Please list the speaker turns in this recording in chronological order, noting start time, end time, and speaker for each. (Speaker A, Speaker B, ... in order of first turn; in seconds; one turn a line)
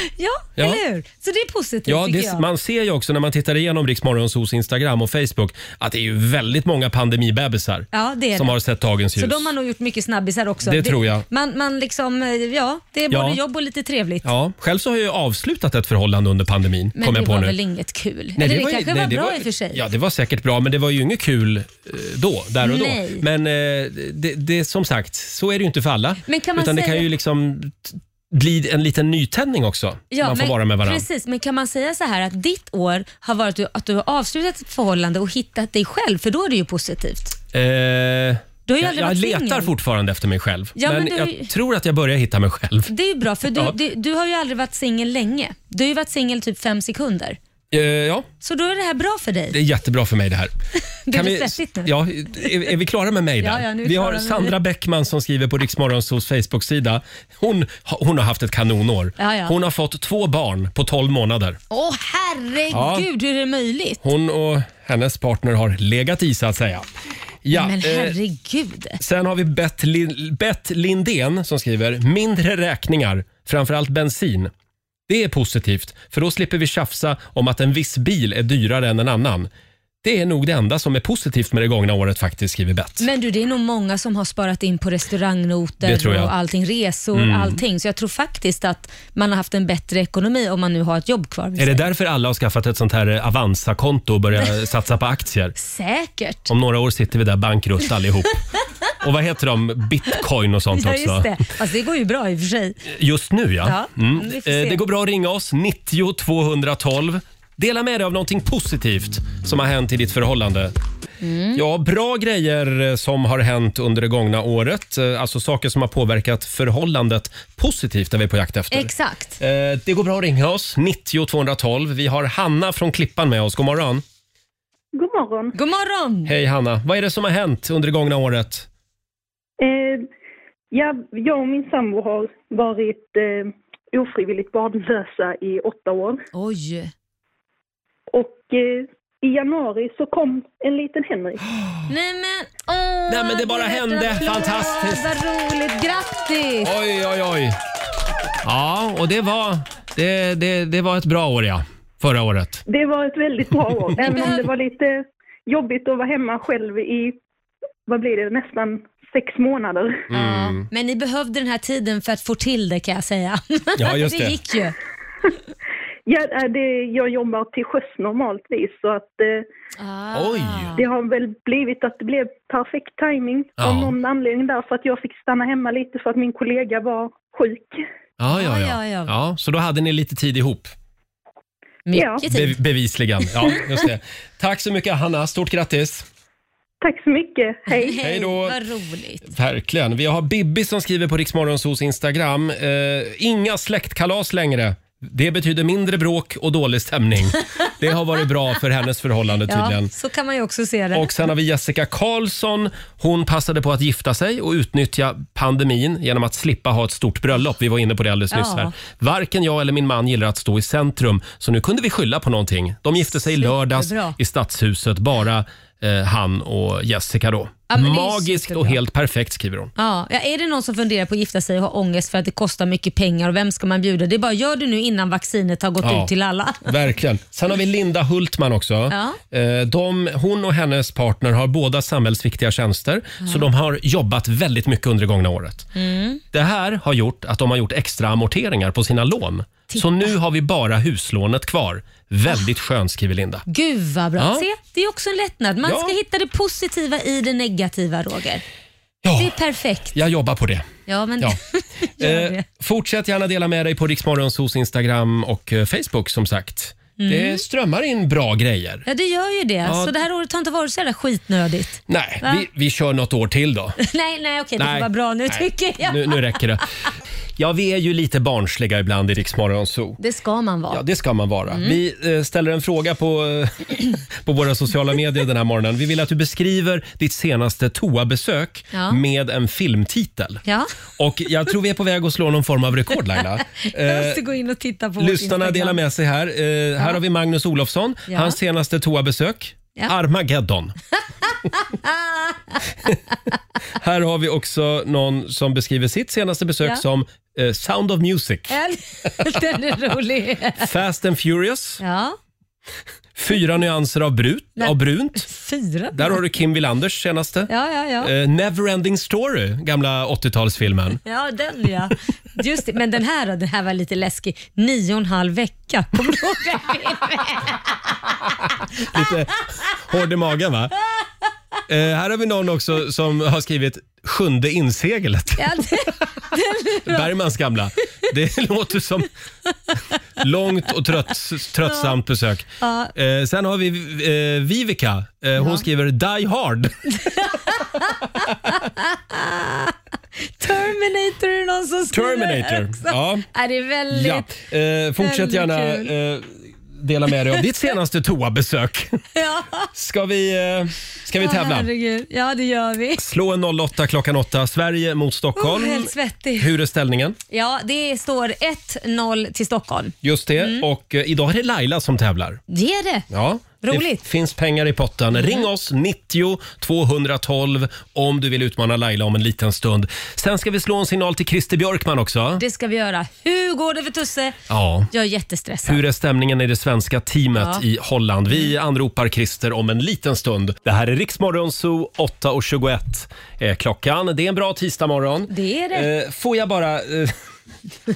Speaker A: 0.2-2.4
Speaker B: 0.6-0.8
Speaker B: 1.9-9.5
Speaker A: 7.9-8.5
Speaker A: 9.2-14.2
Speaker B: 10.6-11.2
Speaker B: 13.1-13.4
Speaker B: 14.2-17.6
Speaker A: 17.0-19.8
Speaker B: 18.4-31.1
Speaker A: 22.6-23.2
Speaker A: 26.3-27.1
Speaker A: 30.1-37.3
Speaker B: 37.5-42.9
Speaker A: 38.7-39.7
Speaker A: 40.8-41.5
Speaker A: 42.9-47.4
Speaker B: 43.5-43.8
Speaker B: 47.7-48.3
Speaker A: 48.4-49.5
Speaker B: 49.5-50.5
Speaker A: 51.1-51.9
Speaker B: 51.1-61.6
Speaker A: 53.4-54.5
Speaker A: 59.2-59.5
Speaker A: 61.7-64.0
Speaker B: 62.7-63.1
Speaker B: 64.0-66.9
Speaker B: 67.4-68.2
Speaker A: 67.5-69.0
Speaker B: 69.0-74.5
Speaker B: 75.1-79.5
Speaker B: 80.0-83.1
Speaker A: 83.0-91.8
Speaker B: 85.8-86.3
Speaker B: 87.1-87.6
Speaker B: 91.6-95.5
Speaker A: 95.6-96.5
Speaker B: 96.5-98.4
Speaker B: 99.0-101.4
Speaker A: 100.7-102.8
Speaker B: 102.8-110.7
Speaker A: 103.6-104.8
Speaker A: 111.2-111.6
Speaker B: 111.5-124.0
Speaker A: 118.7-119.4
Speaker C: 124.9-125.5
Speaker A: 125.5-126.3
Speaker B: 126.2-128.7
Speaker C: 129.6-130.1
Speaker C: 130.7-136.2
Speaker A: 136.3-136.9
Speaker C: 138.1-141.4
Speaker A: 141.9-146.7
Speaker B: 143.1-145.1
Speaker B: 146.6-147.6
Speaker B: 148.4-152.6
Speaker C: 152.7-157.2
Speaker A: 154.1-154.4
Speaker C: 157.9-160.0
Speaker B: 160.1-160.7
Speaker A: 160.1-164.7
Speaker B: 163.8-164.4
Speaker C: 166.1-169.4
Speaker A: 169.8-170.8
Speaker B: 170.1-170.7
Speaker C: 170.8-177.8
Speaker B: 173.6-173.9
Speaker B: 178.2-180.7
Speaker A: 178.3-179.1
Speaker A: 181.9-182.6
Speaker C: 181.9-182.3
Speaker B: 182.2-186.1
Speaker C: 186.8-188.0
Speaker A: 187.8-189.3
Speaker B: 188.0-188.6
Speaker B: 189.2-199.9
Speaker A: 199.5-201.1
Speaker B: 200.9-219.7
Speaker A: 208.3-208.7
Speaker A: 213.2-214.2
Speaker A: 217.7-218.8
Speaker A: 219.8-226.7
Speaker B: 225.8-226.1
Speaker B: 226.6-235.7
Speaker A: 228.9-229.2
Speaker A: 235.8-236.2
Speaker B: 236.3-243.4
Speaker A: 239.7-240.0
Speaker A: 243.5-248.4
Speaker B: 244.2-244.5
Speaker B: 245.6-246.0
Speaker B: 249.0-249.4
Speaker A: 249.2-249.9
Speaker B: 249.9-250.7
Speaker A: 250.9-252.4
Speaker B: 252.0-258.9
Speaker A: 257.0-257.4
Speaker A: 258.9-262.4
Speaker B: 259.6-260.0
Speaker B: 261.9-263.8
Speaker A: 263.8-266.4
Speaker B: 264.6-266.7
Speaker B: 267.4-270.0
Speaker A: 270.0-270.8
Speaker B: 270.7-280.4
Speaker A: 271.5-271.8
Speaker A: 278.7-279.0
Speaker B: 281.0-284.2
Speaker A: 283.6-285.8
Speaker B: 285.0-290.7
Speaker A: 288.1-288.4
Speaker A: 291.8-292.3
Speaker B: 293.8-298.6
Speaker A: 298.5-300.7
Speaker B: 300.6-301.8
Speaker A: 301.8-302.2
Speaker B: 303.1-305.3
Speaker A: 304.6-306.1
Speaker B: 305.9-311.0
Speaker A: 307.5-308.1
Speaker A: 311.1-317.6
Speaker B: 318.8-320.7
Speaker B: 321.7-325.6
Speaker A: 325.4-327.1
Speaker B: 326.8-329.1
Speaker B: 330.2-337.0
Speaker A: 331.6-331.9
Speaker A: 332.6-332.9
Speaker A: 335.4-335.6
Speaker A: 339.1-339.7
Speaker A: 340.4-344.3
Speaker B: 341.9-343.2
Speaker B: 343.9-349.0
Speaker A: 345.0-345.9
Speaker A: 349.1-349.7
Speaker B: 349.7-351.7
Speaker A: 351.2-353.0
Speaker B: 353.0-357.2
Speaker A: 355.4-356.5
Speaker A: 357.3-360.6
Speaker B: 360.0-362.4
Speaker A: 362.5-363.1
Speaker B: 363.1-372.4
Speaker A: 363.6-364.0
Speaker A: 372.4-374.4
Speaker B: 374.5-374.9
Speaker A: 374.9-375.8
Speaker B: 375.6-387.2
Speaker A: 377.3-377.6
Speaker A: 385.3-385.9